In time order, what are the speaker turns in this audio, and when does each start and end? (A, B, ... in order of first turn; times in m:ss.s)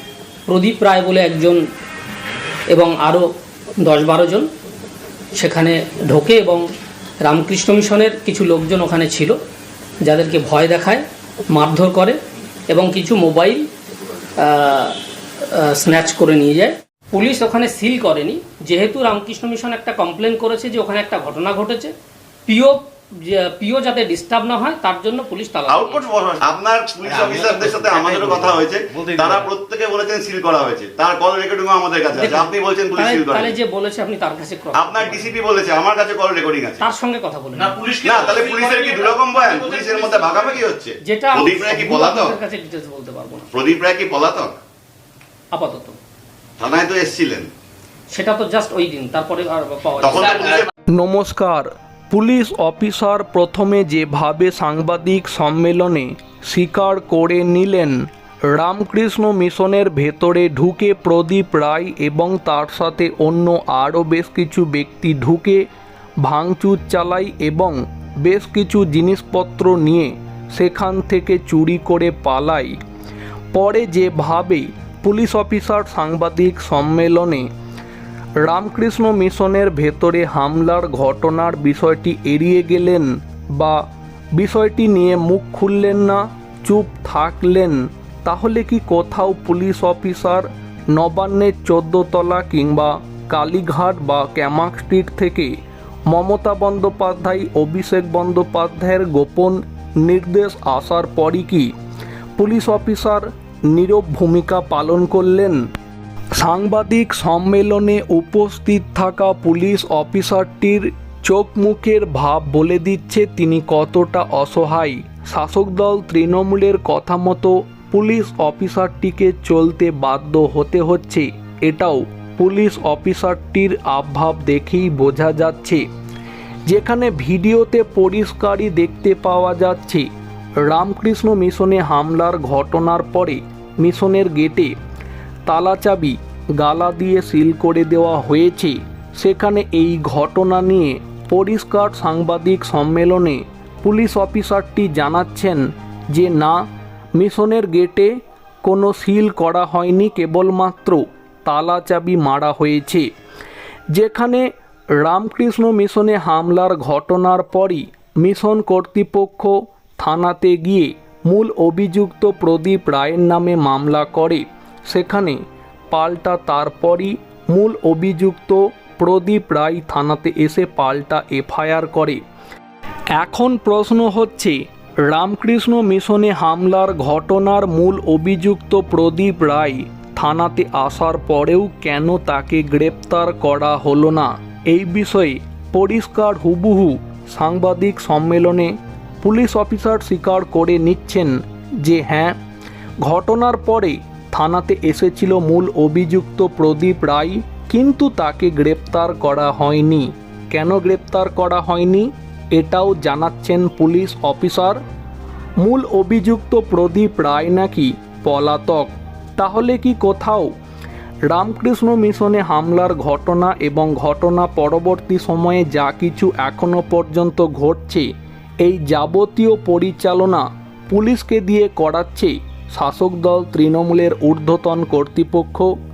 0:00.5-0:01.6 A
0:02.7-0:03.2 A
0:03.8-0:04.5 A
0:05.4-0:06.6 A
0:07.2-0:09.4 A
0:10.0-0:12.2 A
0:12.7-0:13.6 A
0:14.4-0:21.9 A
0:22.5-0:26.0 A
0:25.7-0:33.5 B
0:27.0-0:27.9 A
0:27.1-0:29.5 C
0:32.2-0:35.3 A
0:34.7-0:36.8 B
0:36.8-0:37.8 A
0:37.6-0:40.6 C
0:38.0-0:42.4 B
0:41.0-0:43.5 A
0:43.5-0:44.6 B
0:45.5-0:46.0 A
0:46.6-0:47.5 B
0:48.1-0:50.6 A
0:50.0-0:50.7 B
0:50.9-1:05.6 D
1:06.2-1:12.8 D
1:13.5-1:17.5 D
1:18.4-1:23.8 D
1:24.3-1:35.5 D
1:36.1-1:41.7 D
1:42.4-1:45.6 D
1:46.4-2:05.8 D
2:06.6-2:14.7 D
2:15.5-2:26.6 D
2:27.2-2:33.1 D
2:33.9-2:45.4 D
2:45.9-2:52.2 D
2:53.1-3:12.4 D
3:13.0-3:24.8 D
3:25.6-3:30.5 D
3:31.3-3:38.1 D
3:38.6-3:45.7 D